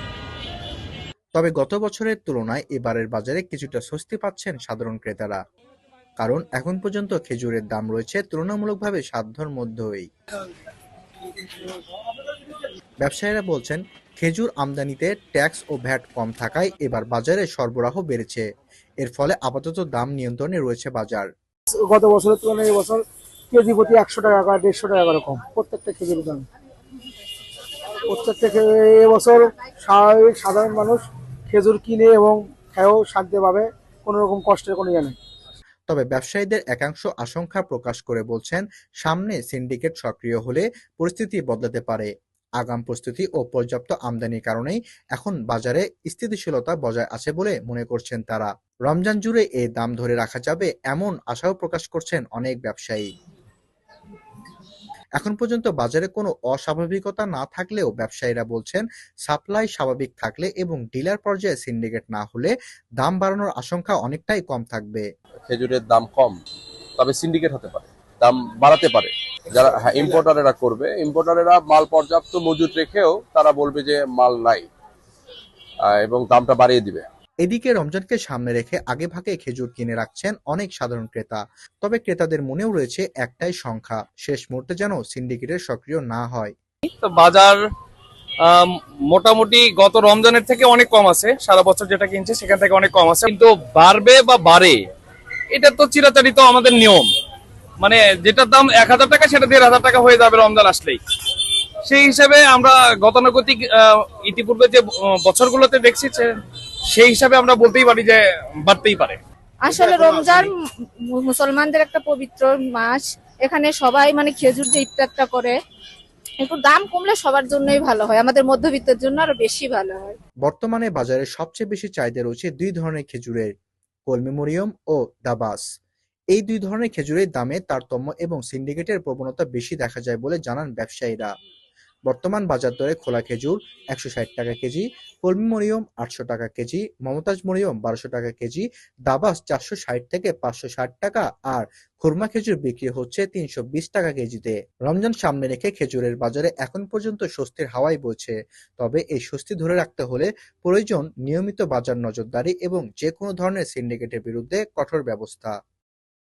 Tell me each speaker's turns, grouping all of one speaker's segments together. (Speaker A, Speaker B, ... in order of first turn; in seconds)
Speaker A: 1.3-5.4, 6.2-10.1, 13.0-18.4, 19.0-21.3, 35.9-53.1, 55.2-65.0, 77.4-86.5, 120.4-123.5, 124.1-125.6, 126.3-131.3, 132.1-155.5
Speaker B: 21.8-26.4, 28.0-35.1
Speaker C: 65.5-66.4, 67.0-74.7, 75.8-77.0
Speaker D: 86.9-87.5, 88.5-94.8, 95.5-97.1, 97.8-101.0, 101.8-106.3, 106.9-109.2
Speaker E: 109.6-110.5, 111.1-115.5, 116.4-120.2